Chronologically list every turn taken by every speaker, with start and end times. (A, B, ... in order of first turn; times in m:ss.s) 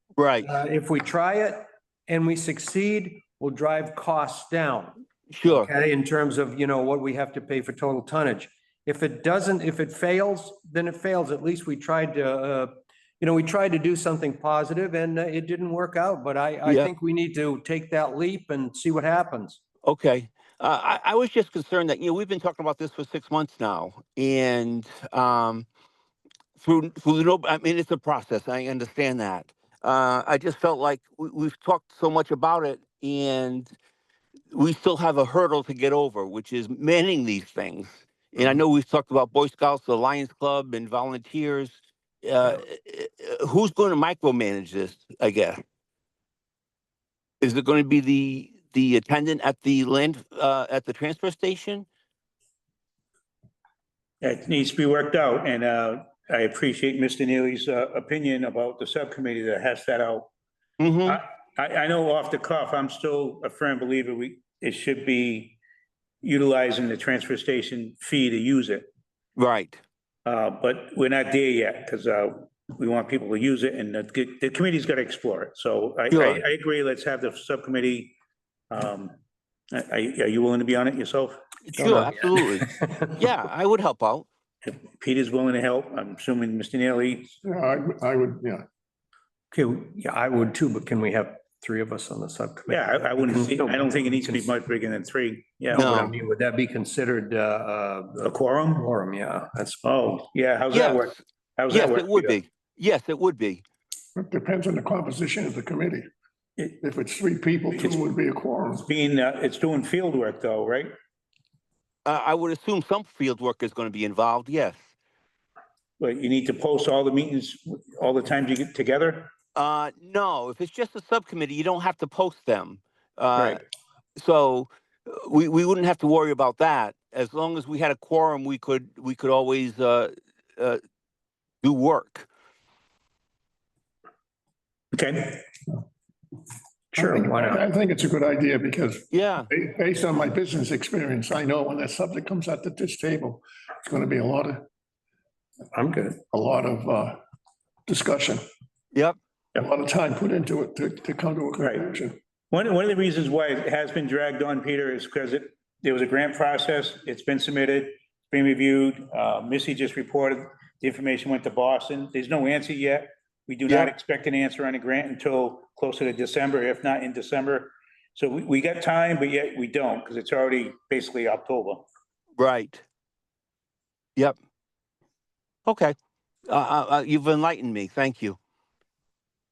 0:00.2-0:00.5 A
0:00.4-0:19.6 B
0:05.3-0:05.7 A
0:16.6-0:16.9 A
0:19.8-0:25.6 A
0:26.6-0:33.7 A
0:34.5-0:45.6 A
0:47.4-0:51.8 A
0:54.2-1:00.3 C
1:00.8-1:01.2 A
1:01.0-1:05.6 C
1:06.2-1:08.9 C
1:09.4-1:09.8 A
1:10.2-1:18.1 C
1:16.1-1:16.4 A
1:18.7-1:19.2 C
1:19.7-1:21.4 C
1:21.6-1:24.2 A
1:21.8-1:23.1 B
1:24.6-1:27.3 C
1:27.4-1:28.6 D
1:29.5-1:34.5 B
1:32.7-1:35.9 C
1:35.7-1:39.8 B
1:35.7-1:36.1 A
1:38.2-1:38.8 C
1:39.8-1:42.4 C
1:40.7-1:41.2 A
1:41.7-1:43.6 A
1:44.2-1:46.1 D
1:46.8-1:48.8 D
1:47.7-1:48.0 C
1:48.8-1:50.9 C
1:52.0-1:54.8 A
1:56.0-1:59.3 C
1:59.5-2:03.6 A
2:04.2-2:10.8 A
2:11.6-2:12.3 A
2:14.9-2:15.4 C
2:16.9-2:17.6 B
2:16.9-2:24.6 D
2:19.1-2:19.5 A
2:25.7-2:26.2 B
2:26.3-2:27.2 D
2:27.9-2:28.4 D
2:29.6-2:32.2 D
2:31.6-2:31.9 C
2:32.5-2:51.8 C
2:43.7-2:43.9 A
2:52.4-2:52.8 A
2:55.6-2:55.9 A
2:56.5-2:58.4 A